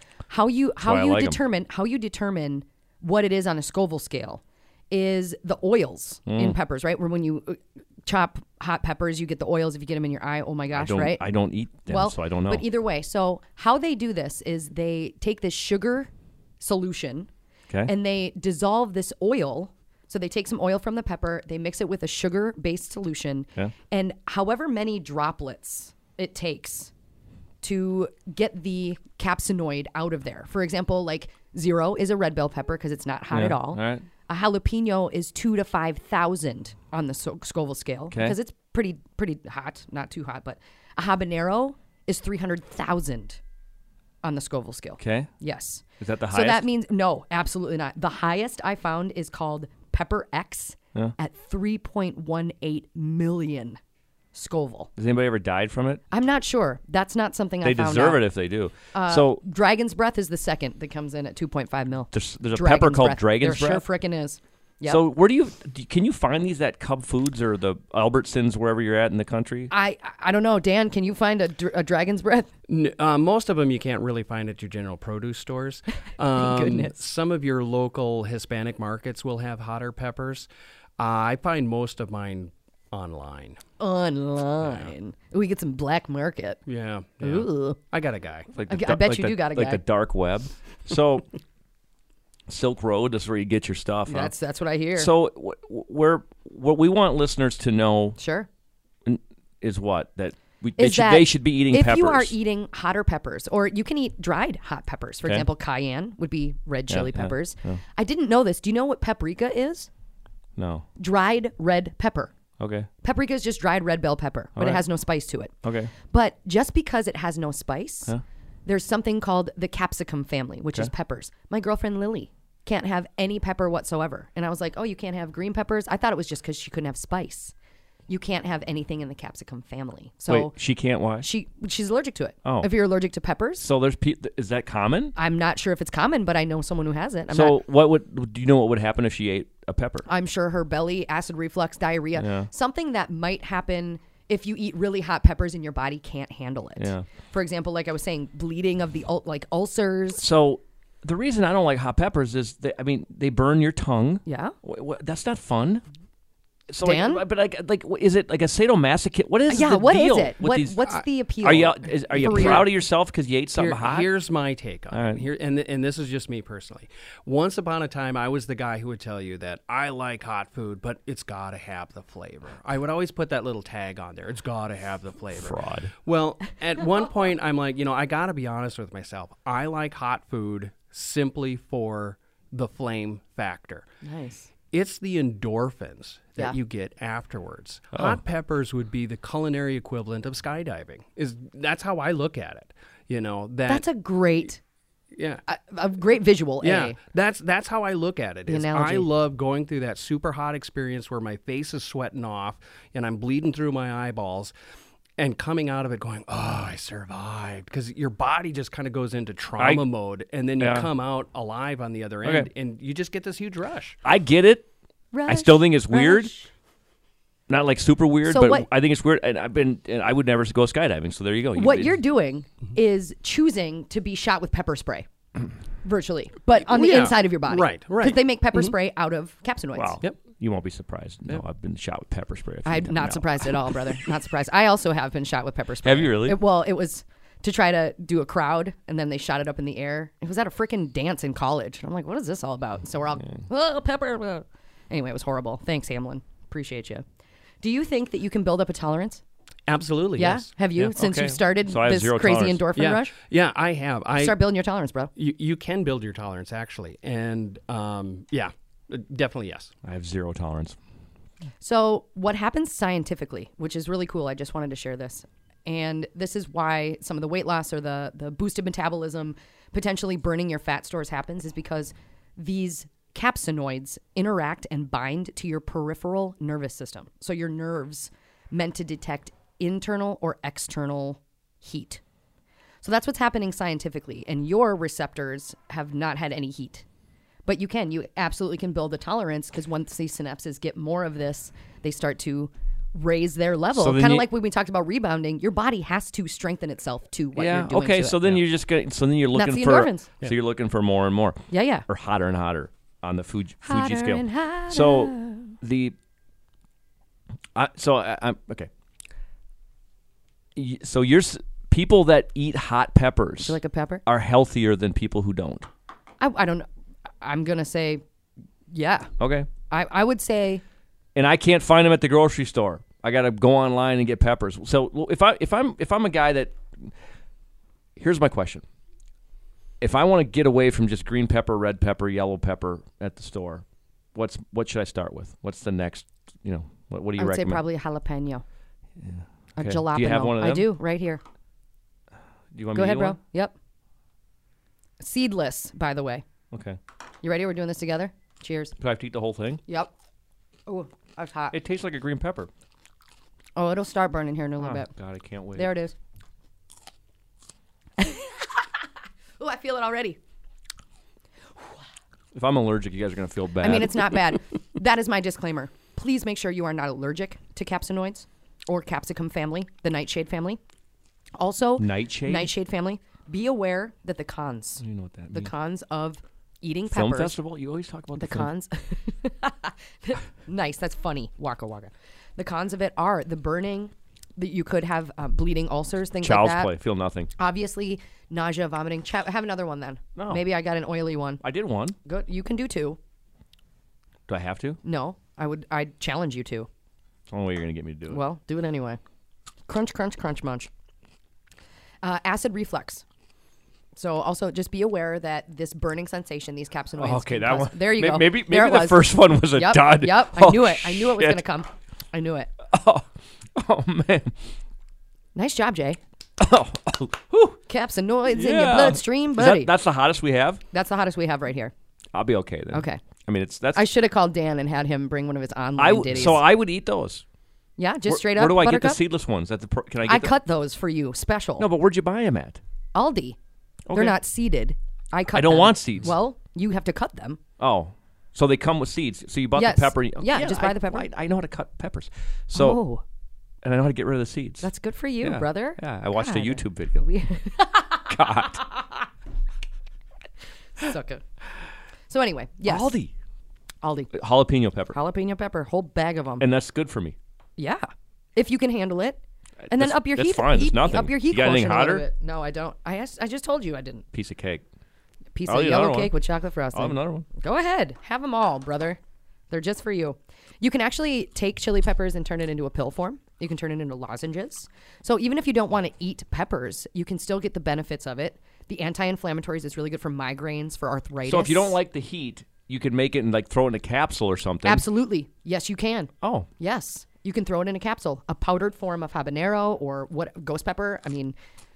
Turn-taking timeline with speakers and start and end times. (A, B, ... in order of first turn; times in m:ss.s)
0:00.3-0:11.2 A
0:00.8-0:01.4 B
0:06.3-0:06.6 B
0:10.7-0:12.6 B
0:11.9-0:17.3 A
0:17.8-0:26.9 A
0:27.6-0:43.4 A
0:33.3-0:34.0 B
0:38.1-0:38.4 B
0:44.2-0:53.8 A
0:45.0-0:45.3 B
0:46.0-0:46.6 B
0:54.3-0:54.9 A
0:55.0-0:56.0 B
0:56.1-0:58.2 A
0:57.6-0:59.4 B
0:58.9-1:05.0 A
1:02.1-1:03.8 B
1:04.8-1:09.7 B
1:09.7-1:12.5 A
1:12.7-1:20.5 C
1:16.3-1:16.9 A
1:21.0-1:23.6 C
1:23.8-1:26.6 A
1:24.6-1:24.9 C
1:26.6-1:28.5 C
1:27.2-1:27.8 A
1:28.5-1:31.3 B
1:28.7-1:29.8 A
1:32.5-1:34.3 B
1:34.1-1:35.1 A
1:34.9-1:38.2 B
1:38.2-1:38.5 A
1:39.0-1:42.3 B
1:40.8-1:49.9 A
1:46.9-1:47.8 B
1:50.6-1:50.8 B
1:51.0-1:52.3 A
1:52.6-1:52.9 B
1:53.0-1:55.5 A
1:54.6-1:54.8 B
1:55.6-1:55.9 B
1:56.1-1:58.1 A
1:58.6-2:07.5 A
2:08.1-2:10.5 A
2:10.3-2:11.2 B
2:11.2-2:13.6 A
2:13.6-2:15.1 B
2:15.2-2:17.6 A
2:17.3-2:20.1 B
2:20.1-2:30.2 A
2:22.1-2:22.5 B
2:26.8-2:27.1 B
2:30.2-2:35.8 B
2:34.2-2:34.5 A
2:36.7-2:40.8 B
2:36.8-2:37.2 A
2:39.5-2:42.7 A
2:41.4-2:44.1 B
2:42.1-2:42.7 C
2:43.5-3:03.8 C
2:44.9-2:45.2 B
2:55.3-2:55.9 B
3:04.0-3:04.5 A
3:04.7-3:13.8 C
3:13.7-3:14.6 A
3:15.1-3:15.4 C
3:15.5-3:17.0 A
3:16.6-3:24.5 C
3:18.5-3:19.1 A
3:25.2-3:34.0 C
3:30.6-3:30.9 B
3:34.0-3:34.7 B
3:35.1-3:36.5 A
3:35.3-3:36.3 B
3:37.5-3:42.0 B
3:38.3-3:38.7 A
3:41.5-3:45.1 A
3:45.8-3:50.0 A
3:46.6-3:48.7 C
3:49.7-3:53.2 B
3:52.6-4:07.0 A
3:55.8-3:56.4 B
4:07.6-4:09.2 A
4:09.7-4:10.9 C
4:10.2-4:13.1 A
4:11.0-4:12.6 B
4:12.7-4:14.4 C
4:14.2-4:15.1 A
4:15.2-4:19.7 C
4:19.8-4:20.8 B
4:21.6-4:42.0 A
4:42.8-4:46.8 A
4:47.4-4:58.3 A
4:53.7-4:54.3 B
4:57.3-5:06.0 B
4:59.3-5:00.1 A
5:01.5-5:01.8 A
5:03.6-5:05.6 A
5:07.5-5:08.7 B
5:10.5-5:15.7 B
5:13.4-5:14.0 A
5:16.2-5:16.7 A
5:17.2-5:18.0 A
5:18.7-5:19.1 A
5:19.2-5:19.5 B
5:19.7-5:20.6 A
5:21.1-5:26.9 B
5:28.0-5:28.6 B
5:29.8-5:33.6 B
5:34.1-5:37.6 B
5:37.2-5:38.4 A
5:39.0-5:40.7 B
5:39.6-5:41.2 A
5:42.5-5:43.2 B
5:42.7-5:43.5 A
5:45.0-5:46.2 A
5:46.5-5:46.8 B
5:47.2-5:48.8 A
5:48.8-5:49.6 B
5:50.7-5:51.6 A
5:51.5-5:52.5 B
5:53.6-5:54.9 A
5:54.6-5:55.7 B
5:55.6-5:55.9 A
5:58.0-5:58.7 A
5:59.4-6:00.2 A
6:02.3-6:04.2 B
6:03.6-6:10.6 A
6:11.4-6:17.3 A
6:11.8-6:12.5 B
6:14.8-6:15.5 B
6:16.9-6:18.5 B
6:18.2-6:26.7 A
6:26.2-6:27.3 B
6:27.4-6:31.4 A
6:30.2-6:30.4 B
6:31.4-6:32.0 B
6:32.0-6:33.0 A
6:34.3-6:34.8 B
6:34.8-6:36.7 A
6:37.3-6:38.2 B
6:38.1-6:39.0 A
6:39.7-6:40.7 A
6:42.0-6:43.0 A
6:43.9-6:52.5 A
6:47.0-6:51.4 B
6:52.7-6:54.4 B
6:55.3-6:56.0 A
6:56.4-6:57.6 B
6:57.7-6:59.7 A
6:58.3-7:00.6 B
7:00.7-7:01.7 A
7:02.1-7:03.9 B
7:02.7-7:03.0 A
7:03.7-7:06.4 A
7:05.8-7:07.2 B
7:07.8-7:09.0 A
7:08.1-7:10.3 B
7:10.0-7:11.7 A
7:11.6-7:12.6 B
7:12.9-7:13.4 A
7:13.9-7:14.2 B
7:13.9-7:17.4 A
7:15.3-7:16.1 B
7:17.6-7:22.8 B
7:19.6-7:21.1 A
7:22.5-7:23.0 A
7:23.6-7:24.7 B
7:24.6-7:28.9 A
7:25.2-7:27.0 B
7:28.1-7:28.6 B
7:30.8-7:31.2 A
7:32.1-7:32.9 A
7:32.6-7:33.1 B
7:33.8-7:34.1 A
7:34.1-7:35.0 B
7:34.9-7:36.4 A
7:36.4-7:37.2 B
7:37.6-7:44.0 A
7:39.6-7:42.0 B
7:44.1-7:44.6 B
7:45.3-7:49.0 A
7:45.4-7:46.1 B
7:46.7-7:47.2 B
7:49.5-8:01.7 A
8:01.2-8:04.8 B
8:04.6-8:11.3 A
8:06.2-8:06.5 B